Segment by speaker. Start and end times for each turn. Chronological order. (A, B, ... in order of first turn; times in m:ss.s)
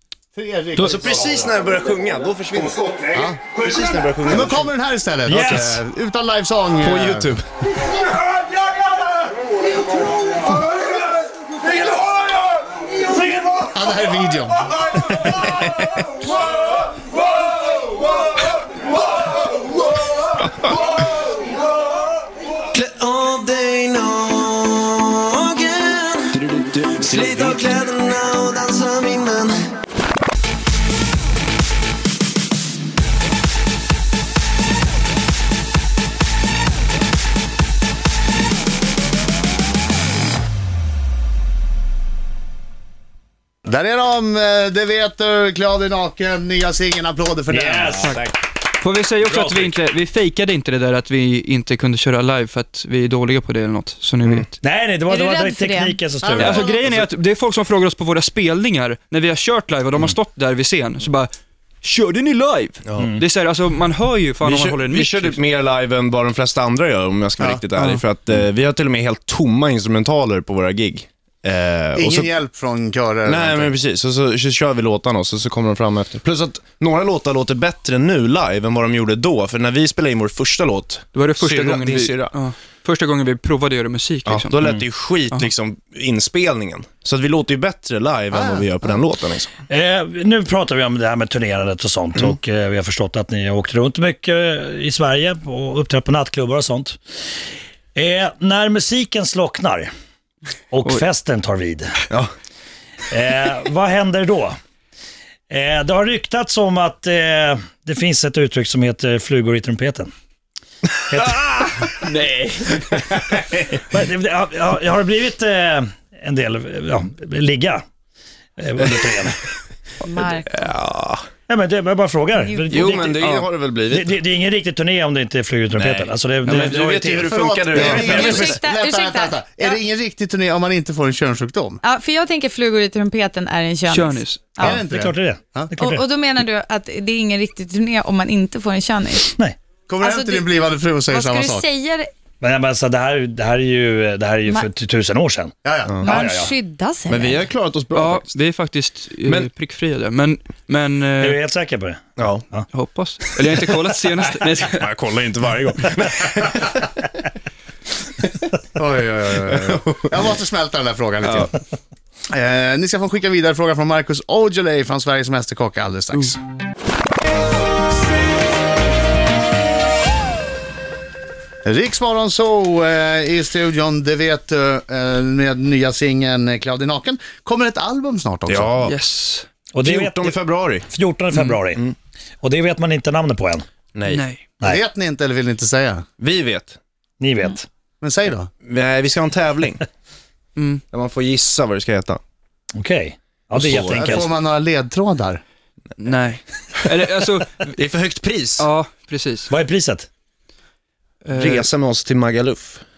0:00.3-0:01.4 A
0:00.8-0:01.0 B
0:00.9-0:03.0 C
0:03.1-0:03.4 A
0:03.5-0:04.7 C
0:04.2-0:07.3 A
0:05.2-0:05.8 B
0:05.4-0:05.7 C
0:06.8-0:07.4 C
0:13.7-0:14.7 A
0:15.2-0:16.0 C
0:20.4-0:20.8 C
0:22.7-0:29.6 C
0:43.6-0:48.0 A
0:47.5-0:48.2 B
0:48.0-0:54.6 D
0:49.2-0:49.7 B
0:54.3-0:56.6 B
0:55.1-0:56.0 E
0:56.2-0:56.8 A
0:56.4-1:05.4 D
1:03.0-1:03.2 B
1:04.4-1:12.3 C
1:12.0-1:13.7 A
1:13.2-1:22.3 C
1:21.1-1:25.5 D
1:24.3-1:29.5 C
1:28.3-1:28.8 A
1:29.7-1:37.0 B
1:37.9-1:39.9 B
1:40.7-1:42.0 B
1:43.1-1:44.6 B
1:45.5-1:50.1 B
1:51.1-1:51.9 B
1:51.8-1:52.9 D
1:53.5-1:57.8 B
1:58.6-1:59.6 B
2:00.0-2:00.7 E
2:00.4-2:01.2 C
2:01.5-2:03.2 B
2:02.4-2:03.0 E
2:02.7-2:04.1 C
2:03.2-2:03.5 D
2:03.9-2:07.4 B
2:05.8-2:08.5 C
2:06.4-2:06.8 D
2:07.2-2:11.8 A
2:07.8-2:08.1 D
2:07.8-2:09.8 E
2:11.8-2:14.8 E
2:13.9-2:14.5 D
2:14.6-2:15.7 A
2:14.6-2:16.1 B
2:15.8-2:19.3 E
2:19.9-2:21.7 A
2:20.0-2:20.6 E
2:21.1-2:22.1 E
2:22.4-2:25.5 B
2:25.6-2:26.0 A
2:25.8-2:26.1 C
2:26.0-2:27.4 E
2:26.0-2:26.6 B
2:27.1-2:28.4 C
2:27.9-2:31.4 D
2:31.2-2:32.7 B
2:32.2-2:32.5 C
2:32.7-2:34.9 D
2:34.8-2:37.0 C
2:38.8-2:41.6 A
2:39.5-2:40.3 C
2:42.3-2:46.4 A
2:51.6-2:58.7 A
2:58.4-2:58.8 C
2:58.8-2:59.5 D
2:59.7-3:03.6 B
2:59.8-3:00.9 C
3:01.3-3:01.6 D
3:03.9-3:04.2 C
3:04.1-3:04.4 D
3:04.6-3:06.0 A
3:06.2-3:06.8 C
3:07.2-3:07.7 B
3:08.0-3:08.5 A
3:08.7-3:09.8 C
3:10.6-3:10.8 D
3:10.9-3:12.2 C
3:12.7-3:14.3 B
3:13.5-3:14.0 C
3:13.7-3:15.4 A
3:16.0-3:17.7 D
3:17.8-3:18.7 C
3:18.6-3:19.5 D
3:19.5-3:20.1 B
3:21.3-3:21.7 D
3:21.4-3:22.8 C